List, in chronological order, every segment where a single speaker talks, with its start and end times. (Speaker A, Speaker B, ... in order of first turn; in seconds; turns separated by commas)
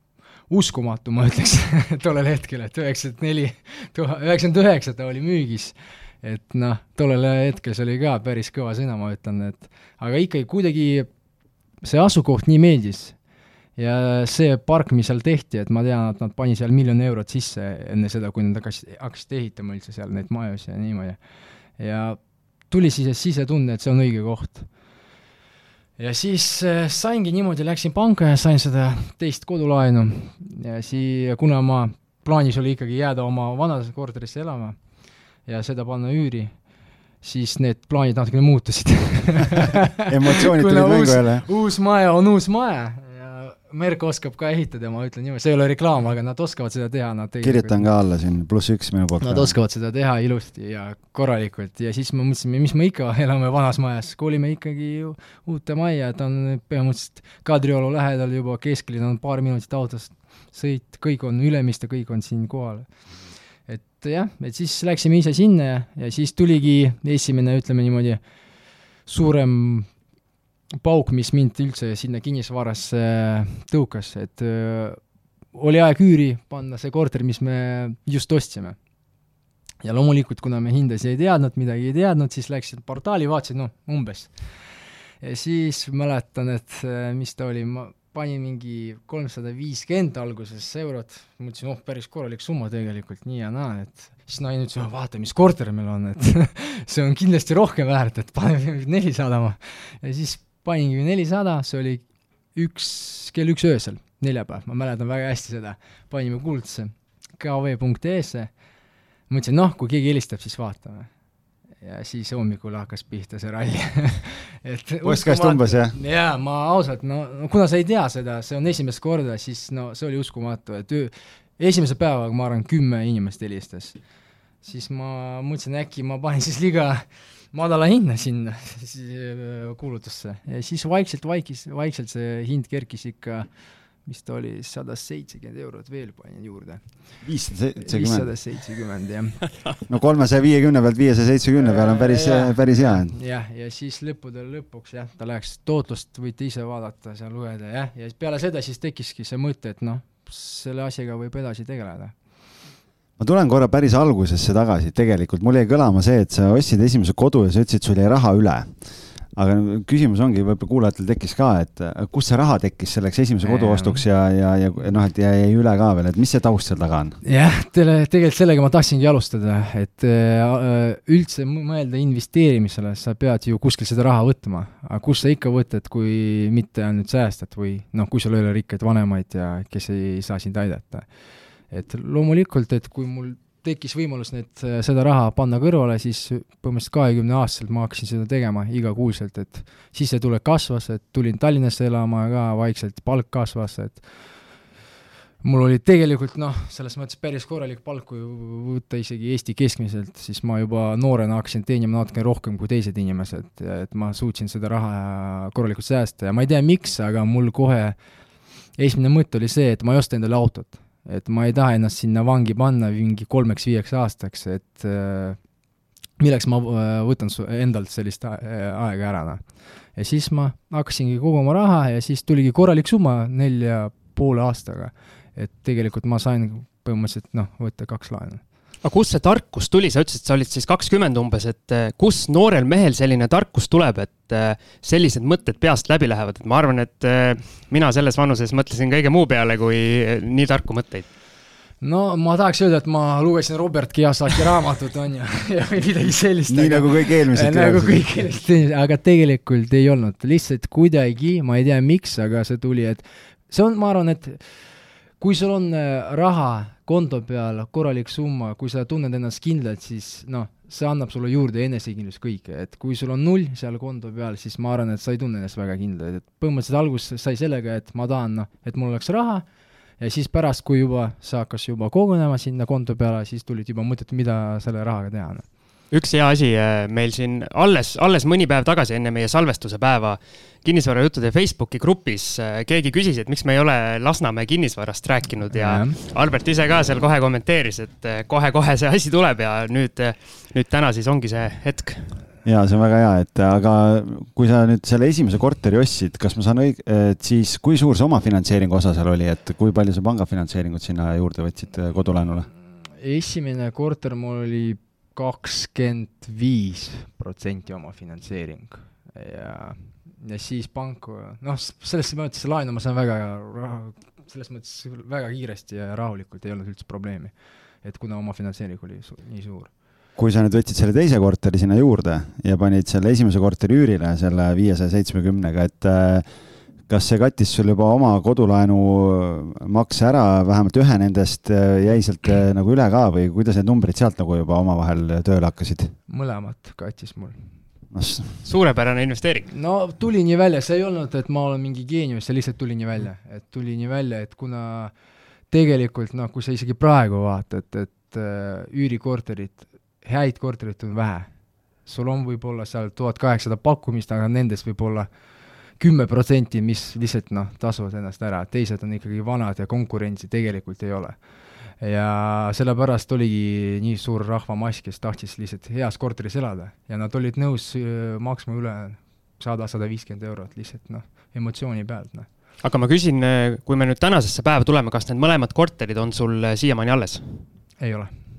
Speaker A: 0.5-11.1, Speaker A: 11.8-13.2, Speaker A: 13.8-21.2, Speaker A: 21.8-22.2, Speaker A: 22.7-24.7, Speaker A: 26.0-34.8, Speaker A: 35.5-36.5, Speaker A: 37.2-47.8, Speaker B: 40.1-41.5, Speaker B: 47.4-49.5, Speaker A: 49.2-62.9, Speaker A: 63.7-68.2, Speaker A: 69.1-69.9, Speaker A: 70.8-75.0, Speaker A: 75.5-78.8, Speaker A: 79.8-84.3, Speaker A: 85.2-108.5, Speaker A: 109.3-111.1, Speaker A: 111.8-124.0, Speaker B: 115.0-116.0, Speaker A: 124.6-133.5, Speaker A: 134.1-136.8, Speaker B: 137.2-138.3, Speaker A: 137.8-139.4, Speaker B: 139.9-143.2, Speaker A: 141.6-152.1, Speaker B: 153.2-158.7, Speaker B: 159.4-167.2, Speaker A: 163.4-164.0, Speaker A: 167.2-181.1, Speaker A: 181.7-194.1, Speaker A: 195.4-208.0, Speaker A: 208.8-215.4, Speaker A: 216.2-219.4, Speaker A: 219.9-228.4, Speaker C: 228.8-241.1, Speaker A: 241.8-254.4, Speaker B: 246.5-248.0, Speaker A: 255.2-269.4, Speaker A: 270.0-275.5, Speaker C: 275.9-292.1, Speaker A: 285.5-286.0, Speaker B: 292.4-302.5, Speaker A: 303.0-319.7, Speaker B: 320.2-326.3, Speaker B: 326.9-335.9, Speaker A: 336.1-337.4, Speaker B: 337.9-338.3, Speaker C: 338.4-339.5, Speaker A: 339.5-344.9, Speaker A: 345.5-351.3, Speaker A: 351.9-355.1, Speaker A: 355.8-361.2, Speaker A: 361.8-372.3, Speaker C: 372.6-377.3, Speaker A: 377.8-378.1